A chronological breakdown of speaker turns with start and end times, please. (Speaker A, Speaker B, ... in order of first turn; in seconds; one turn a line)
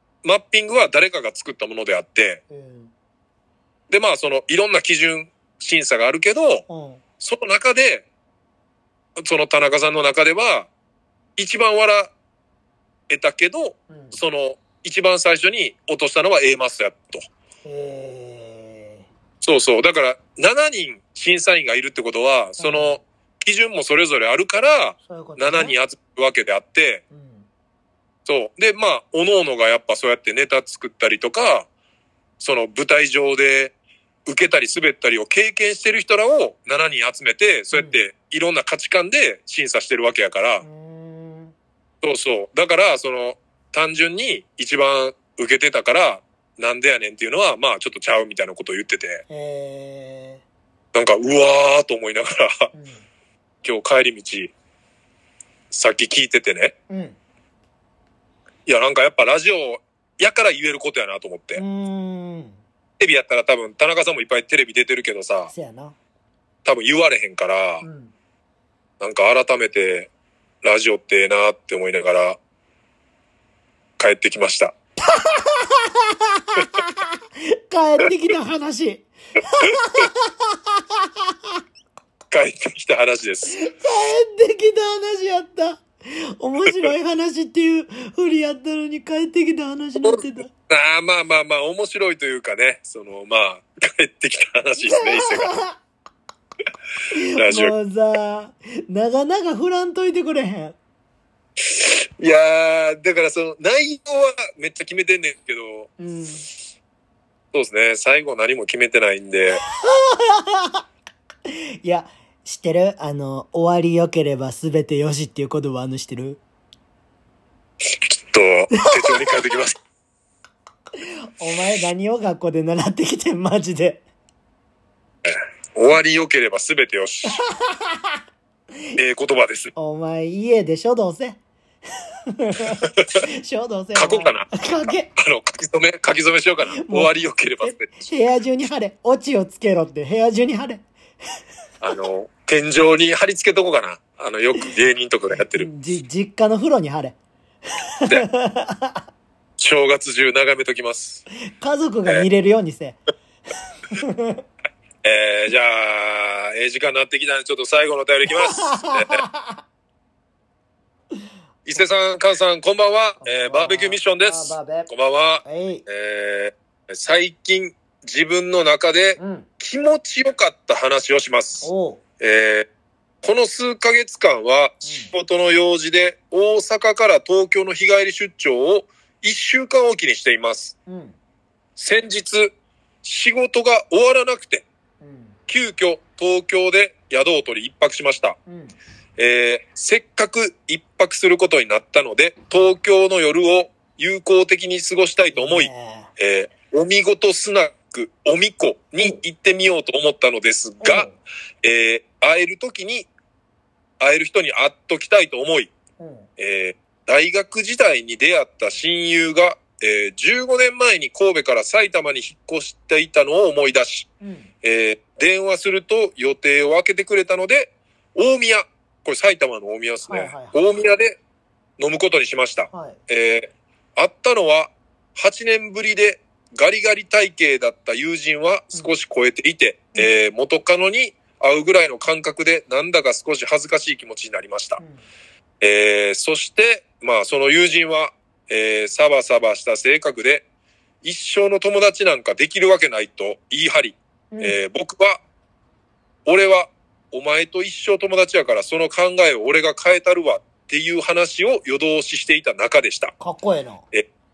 Speaker A: 0.2-2.4
Speaker B: 2.5-2.9
Speaker A: 3.9-6.7
Speaker B: 6.7-7.0
Speaker A: 7.2-8.1
Speaker A: 9.2-10.7
Speaker A: 11.4-12.1
Speaker A: 13.1-17.2
Speaker B: 13.9-14.2
Speaker B: 17.6-19.1
Speaker A: 19.4-27.0
Speaker B: 22.6-23.0
Speaker B: 25.1-25.8
Speaker B: 27.1-27.5
Speaker A: 28.2-31.7
Speaker A: 32.4-33.7
Speaker A: 34.3-40.6
Speaker B: 37.7-38.0
Speaker B: 40.6-41.5
Speaker A: 42.0-49.2
Speaker B: 49.3-50.4
Speaker A: 50.9-52.7
Speaker B: 52.7-53.1
Speaker A: 53.6-54.5
Speaker A: 55.7-56.7
Speaker B: 56.9-57.2
Speaker A: 58.7-61.6
Speaker B: 61.6-62.6
Speaker A: 63.0-65.5
Speaker B: 65.5-66.0
Speaker A: 66.7-67.8
Speaker B: 67.8-68.1
Speaker A: 69.0-70.1
Speaker A: 70.6-72.4
Speaker A: 74.0-74.7
Speaker B: 75.0-81.5
Speaker A: 82.3-83.6
Speaker B: 83.5-90.5
Speaker A: 90.0-95.6
Speaker B: 94.8-95.8
Speaker B: 97.1-100.8
Speaker A: 97.4-97.7
Speaker A: 101.6-105.9
Speaker B: 106.0-106.5
Speaker A: 107.5-109.6
Speaker B: 109.5-110.8
Speaker B: 111.5-116.4
Speaker A: 117.8-119.8
Speaker B: 118.7-119.4
Speaker B: 121.0-124.0
Speaker A: 125.3-127.5
Speaker B: 127.3-128.2
Speaker A: 129.0-129.7
Speaker B: 129.8-131.4
Speaker B: 132.3-135.1
Speaker A: 132.8-133.2
Speaker A: 134.0-138.1
Speaker B: 136.7-140.8
Speaker A: 141.8-145.7
Speaker B: 145.3-147.2
Speaker B: 147.8-149.0
Speaker A: 149.6-151.2
Speaker B: 151.4-153.0
Speaker B: 153.9-154.4
Speaker A: 155.0-159.2
Speaker B: 158.3-159.6
Speaker A: 161.7-172.7
Speaker B: 163.2-164.9
Speaker B: 165.4-165.9
Speaker B: 169.2-169.5
Speaker B: 171.6-172.0
Speaker A: 173.2-180.8
Speaker B: 174.8-175.1
Speaker B: 180.9-181.2
Speaker A: 181.8-184.7
Speaker B: 185.0-185.4
Speaker A: 185.5-188.4
Speaker B: 188.5-188.8
Speaker A: 189.2-201.1
Speaker B: 195.3-196.1
Speaker B: 200.8-201.2
Speaker A: 201.6-203.1
Speaker A: 204.0-205.7
Speaker B: 206.0-206.3
Speaker A: 206.4-214.1
Speaker B: 214.2-214.5
Speaker A: 214.6-221.2
Speaker B: 220.1-220.9
Speaker A: 221.8-234.8
Speaker B: 222.7-223.0
Speaker B: 234.8-235.1
Speaker A: 235.6-240.4
Speaker A: 241.0-245.2
Speaker B: 244.3-244.6
Speaker A: 246.3-253.1
Speaker B: 253.2-253.8